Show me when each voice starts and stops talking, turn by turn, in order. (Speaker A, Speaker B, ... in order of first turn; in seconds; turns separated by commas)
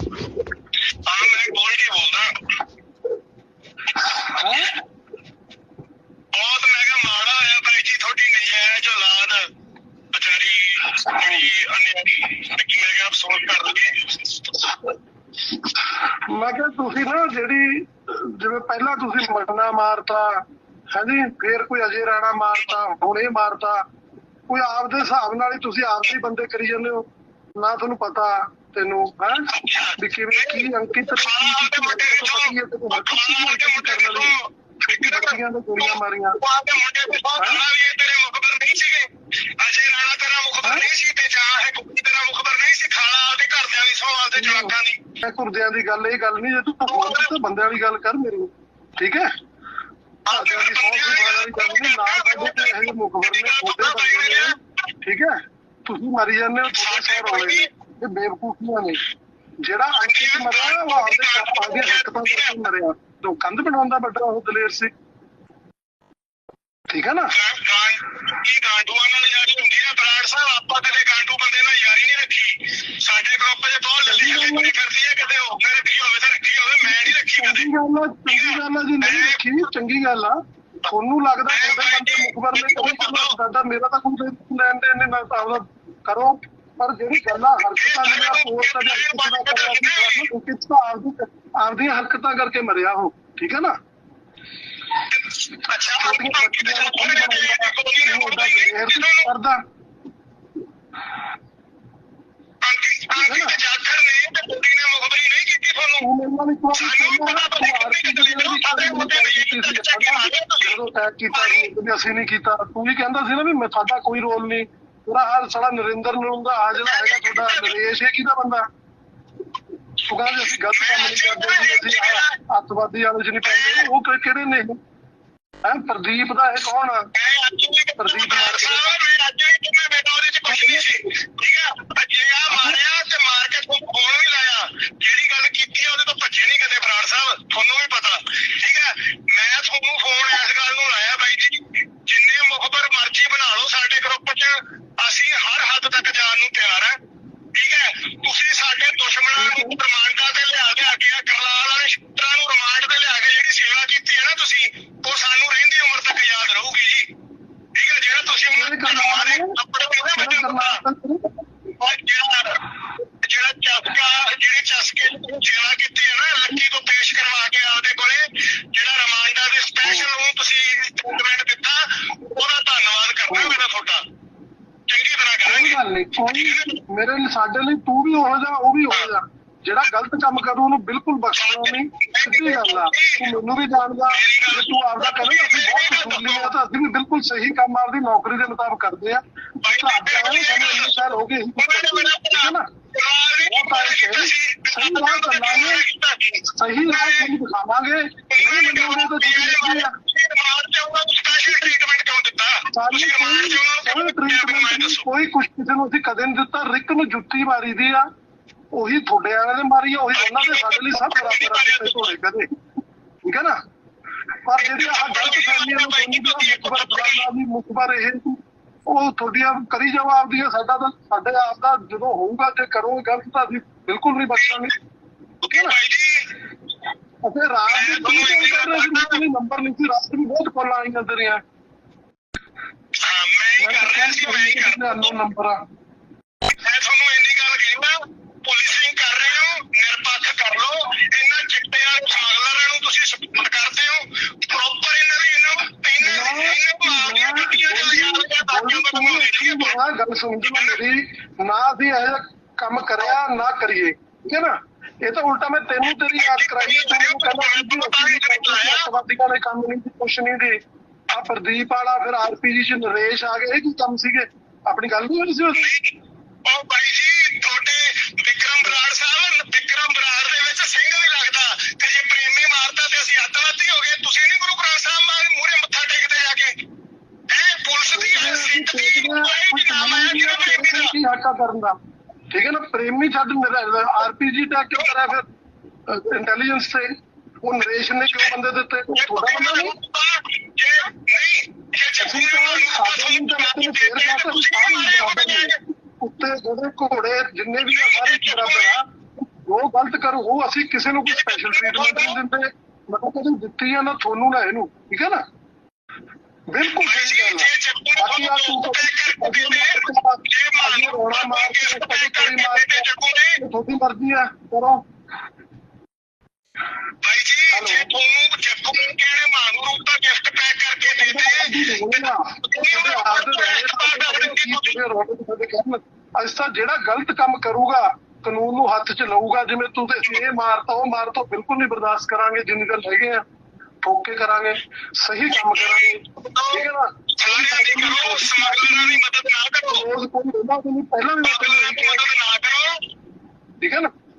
Speaker A: 1.1-2.5, Speaker A: 4.0-4.8, Speaker B: 4.0-4.7, Speaker A: 6.3-9.4, Speaker A: 10.1-14.4, Speaker B: 11.1-11.5, Speaker B: 14.7-14.9, Speaker B: 15.5-20.4, Speaker B: 20.9-23.8, Speaker B: 24.5-27.0, Speaker B: 27.6-34.3, Speaker A: 29.5-45.0, Speaker B: 34.9-36.4, Speaker B: 37.4-37.6, Speaker B: 44.3-49.3, Speaker A: 46.9-47.3, Speaker A: 50.3-54.5, Speaker B: 50.3-54.5, Speaker B: 55.0-59.0, Speaker A: 56.7-57.7, Speaker B: 59.6-64.9, Speaker A: 59.9-62.6, Speaker B: 66.9-67.3, Speaker A: 67.3-77.7, Speaker B: 74.0-74.7, Speaker B: 76.8-93.7, Speaker A: 78.3-79.6, Speaker A: 81.5-83.3, Speaker A: 87.1-90.3, Speaker A: 95.1-99.3, Speaker B: 95.8-99.6, Speaker A: 102.6-106.0, Speaker B: 103.1-103.6, Speaker B: 106.0-118.6, Speaker A: 106.7-110.8, Speaker A: 111.3-111.7, Speaker A: 116.8-117.8, Speaker B: 120.1-124.8, Speaker A: 120.2-122.3, Speaker A: 123.4-123.9, Speaker B: 125.6-127.1, Speaker A: 127.2-147.0, Speaker B: 128.0-129.0, Speaker B: 130.5-131.0, Speaker B: 132.5-132.8, Speaker A: 147.5-157.1, Speaker B: 149.3-149.8, Speaker A: 157.7-160.8, Speaker B: 158.5-159.6, Speaker B: 160.2-161.4, Speaker A: 161.8-174.0, Speaker B: 173.3-173.6, Speaker A: 174.9-176.8, Speaker B: 175.4-192.7, Speaker A: 181.3-183.2, Speaker A: 184.1-186.5, Speaker A: 189.6-197.3, Speaker B: 193.4-195.8, Speaker B: 196.6-199.9, Speaker A: 198.3-205.1, Speaker B: 202.7-208.0, Speaker B: 208.7-212.5, Speaker A: 210.1-212.2, Speaker B: 213.2-213.6, Speaker B: 214.4-218.4, Speaker A: 214.6-217.3, Speaker B: 218.9-224.8, Speaker A: 224.3-224.7, Speaker A: 225.4-226.3, Speaker B: 225.5-225.8, Speaker B: 227.2-231.4, Speaker A: 227.7-229.2, Speaker A: 233.0-235.1, Speaker B: 233.6-235.6, Speaker A: 236.5-249.8, Speaker B: 246.0-254.5, Speaker A: 250.4-250.8, Speaker B: 255.0-260.5, Speaker A: 256.0-258.9, Speaker B: 261.1-265.7, Speaker A: 265.5-265.9, Speaker A: 266.4-276.6, Speaker A: 277.3-280.9, Speaker B: 277.9-281.8, Speaker B: 282.3-285.2, Speaker B: 285.9-286.9, Speaker B: 287.4-289.7, Speaker A: 288.9-295.6, Speaker B: 292.0-298.8, Speaker A: 297.7-298.8, Speaker B: 299.4-305.2, Speaker A: 301.1-302.2, Speaker B: 306.5-314.8, Speaker A: 306.8-313.4, Speaker A: 317.0-324.8, Speaker B: 317.5-317.9, Speaker B: 320.8-333.2, Speaker B: 333.8-339.0, Speaker A: 335.3-336.6, Speaker A: 337.2-339.9, Speaker B: 339.7-342.1, Speaker A: 341.2-342.8, Speaker B: 343.6-343.9